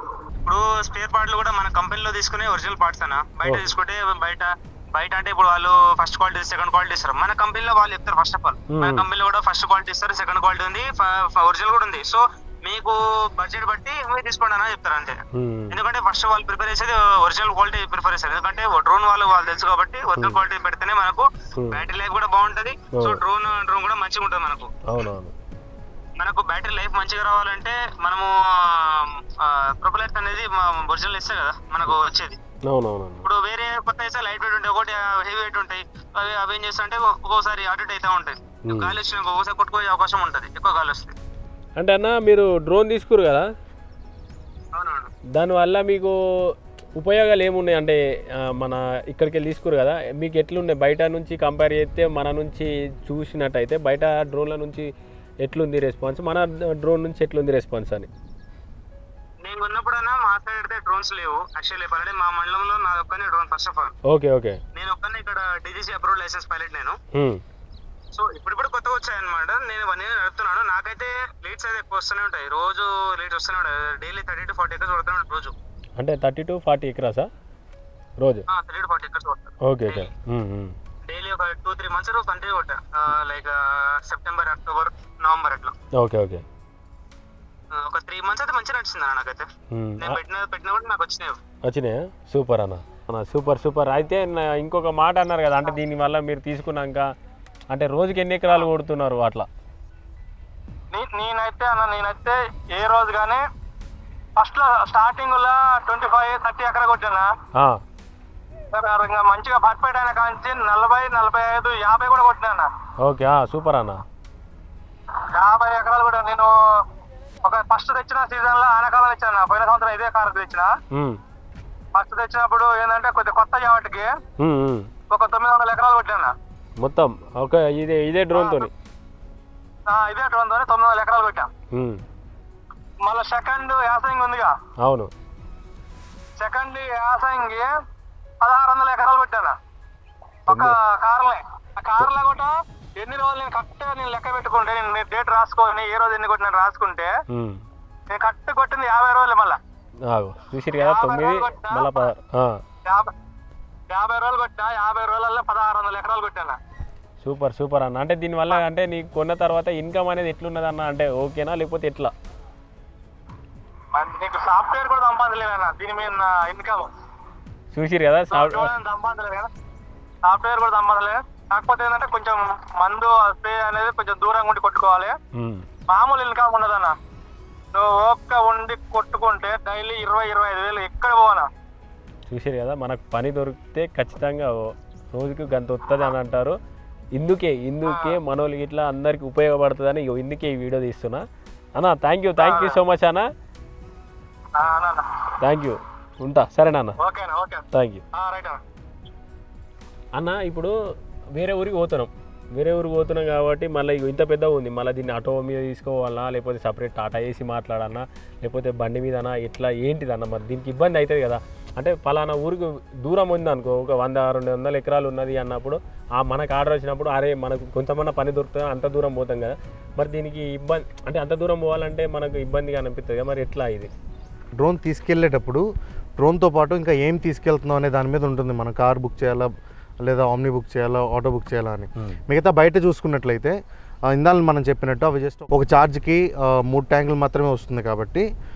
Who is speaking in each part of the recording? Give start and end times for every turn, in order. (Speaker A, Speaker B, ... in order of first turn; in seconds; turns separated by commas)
Speaker A: 0.5-15.2, Speaker B: 3.5-3.7, Speaker B: 8.7-9.1, Speaker B: 15.3-15.8, Speaker A: 15.7-24.7, Speaker B: 20.2-20.4, Speaker B: 21.6-21.9, Speaker B: 22.9-23.2, Speaker B: 24.9-25.3, Speaker A: 26.2-32.4, Speaker B: 32.7-33.3, Speaker A: 33.2-41.1, Speaker B: 38.7-39.0, Speaker B: 41.8-43.5, Speaker A: 44.7-45.1, Speaker B: 45.4-46.2, Speaker B: 47.0-54.9, Speaker B: 55.4-58.1, Speaker A: 59.4-64.0, Speaker B: 64.1-64.6, Speaker A: 64.7-67.0, Speaker B: 67.2-67.4, Speaker A: 68.1-75.5, Speaker B: 76.0-77.3, Speaker B: 78.2-78.5, Speaker A: 78.5-80.1, Speaker B: 79.6-80.8, Speaker A: 81.1-85.8, Speaker B: 86.0-86.4, Speaker A: 87.7-89.5, Speaker B: 89.7-90.2, Speaker A: 90.0-91.4, Speaker B: 91.7-97.1, Speaker B: 97.7-99.5, Speaker C: 100.9-103.4, Speaker C: 104.4-107.3, Speaker C: 108.7-112.7, Speaker B: 113.0-114.0, Speaker C: 115.2-116.5, Speaker C: 117.5-120.7, Speaker B: 120.9-121.2, Speaker C: 122.0-124.1, Speaker B: 124.4-124.9, Speaker C: 125.1-126.3, Speaker B: 126.8-128.7, Speaker C: 128.3-128.7, Speaker C: 129.9-131.5, Speaker B: 131.7-132.0, Speaker C: 133.1-134.5, Speaker B: 134.8-135.1, Speaker C: 136.4-137.7, Speaker C: 138.4-139.6, Speaker C: 140.5-147.1, Speaker B: 140.5-140.8, Speaker B: 147.3-147.6, Speaker C: 148.1-149.6, Speaker B: 150.1-152.6, Speaker C: 150.8-152.1, Speaker C: 152.9-153.1, Speaker C: 153.9-156.6, Speaker B: 157.2-162.1, Speaker C: 163.9-166.9, Speaker B: 167.7-168.7, Speaker C: 168.3-169.5, Speaker C: 170.3-175.2, Speaker B: 175.4-175.7, Speaker C: 175.9-177.0, Speaker C: 177.7-181.5, Speaker B: 182.3-186.6, Speaker B: 187.2-191.2, Speaker C: 187.9-188.2, Speaker B: 191.8-193.2, Speaker C: 192.4-192.8, Speaker C: 194.6-195.1, Speaker B: 195.4-197.0, Speaker C: 197.0-198.6, Speaker B: 197.7-198.0, Speaker B: 200.2-200.8, Speaker B: 201.3-223.9, Speaker D: 224.6-225.7, Speaker D: 226.2-229.5, Speaker D: 230.0-233.6, Speaker D: 234.1-238.3